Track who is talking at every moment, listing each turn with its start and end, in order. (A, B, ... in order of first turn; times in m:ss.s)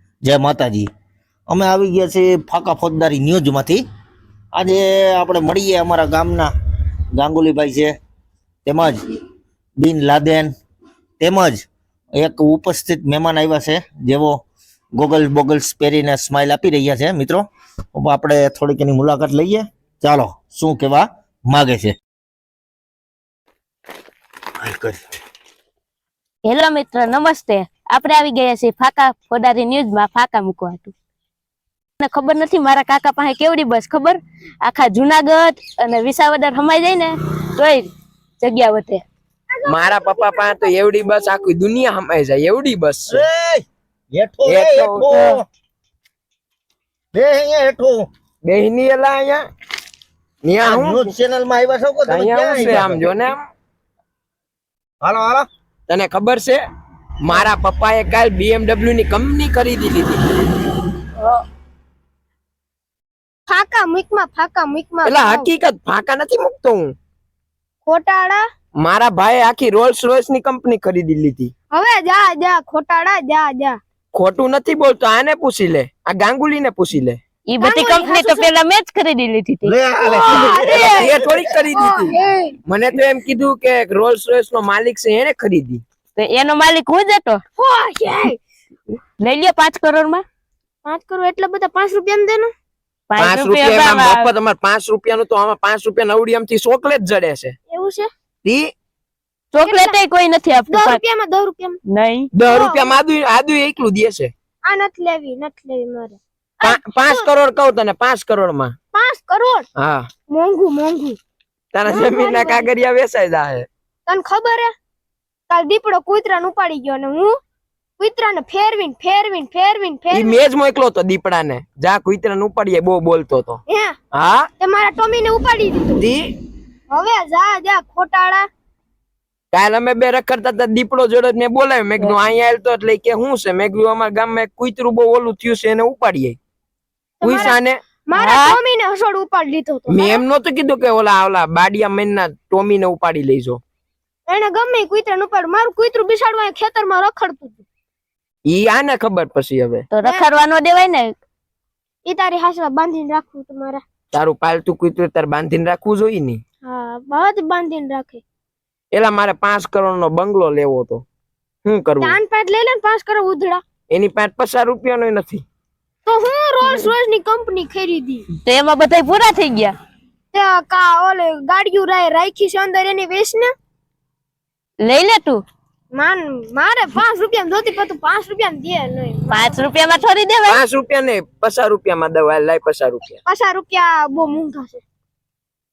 0:00.2-0:00.9 A
0:01.5-0:03.8 A
0:04.5-0:06.5 A
0:07.2-0:07.9 A
0:08.6-0:09.0 A
0:09.8-0:10.5 A
0:11.2-0:11.6 A
0:12.2-0:14.4 A
0:15.0-0:22.0 A
0:24.6-0:25.0 A
0:26.4-0:30.9 B
0:32.0-0:37.9 B
0:38.4-0:39.0 B
0:39.5-0:41.5 C
0:39.6-0:43.2 D
0:43.1-0:45.4 A
0:44.4-0:45.4 D
0:47.1-0:48.1 A
0:48.4-0:49.4 D
0:50.4-0:51.1 D
0:50.6-0:53.2 A
0:52.0-0:53.4 D
0:55.0-0:55.5 A
0:55.9-0:56.6 D
0:57.2-1:00.2 D
1:03.5-1:05.5 C
1:05.0-1:06.9 D
1:07.8-1:08.4 C
1:08.8-1:11.5 D
1:11.7-1:13.8 C
1:14.1-1:17.2 D
1:17.5-1:19.8 B
1:17.6-1:18.5 C
1:19.6-1:21.4 A
1:20.0-1:22.5 C
1:20.6-1:22.1 D
1:22.6-1:25.8 D
1:26.2-1:27.4 B
1:27.6-1:28.4 C
1:29.2-1:30.2 B
1:30.8-1:32.5 C
1:33.1-1:34.3 B
1:33.2-1:37.6 D
1:37.7-1:38.1 C
1:38.4-1:38.7 D
1:39.5-1:41.0 B
1:39.6-1:40.0 C
1:40.6-1:41.8 C
1:41.8-1:42.3 B
1:42.3-1:44.3 D
1:42.4-1:43.0 C
1:44.6-1:47.3 C
1:46.6-1:48.8 D
1:48.9-1:49.6 C
1:49.8-1:50.1 D
1:50.3-1:51.2 C
1:51.7-1:53.7 D
1:51.8-1:52.7 C
1:54.1-1:54.7 C
1:55.5-1:57.4 C
1:58.0-2:00.4 C
2:00.1-2:03.6 D
2:03.7-2:04.0 C
2:04.1-2:04.5 D
2:04.6-2:06.0 C
2:06.0-2:06.3 D
2:06.9-2:08.4 C
2:09.5-2:16.4 D
2:17.2-2:20.2 C
2:17.2-2:17.8 D
2:18.2-2:18.6 B
2:19.9-2:23.6 D
2:24.3-2:27.6 C
2:28.5-2:29.9 D
2:29.9-2:31.2 B
2:30.0-2:30.3 C
2:32.0-2:33.8 C
2:34.1-2:36.4 D
2:36.6-2:38.2 C
2:38.9-2:41.0 D
2:41.6-2:42.2 D
2:42.0-2:43.6 C
2:43.9-2:45.4 D
2:46.0-2:48.2 C
2:46.6-2:46.9 B
2:48.3-2:49.8 B
2:50.3-2:53.5 C
2:54.8-2:55.4 B
2:55.9-2:59.8 C
2:59.3-3:00.6 B
3:00.5-3:03.2 D
3:03.2-3:04.8 C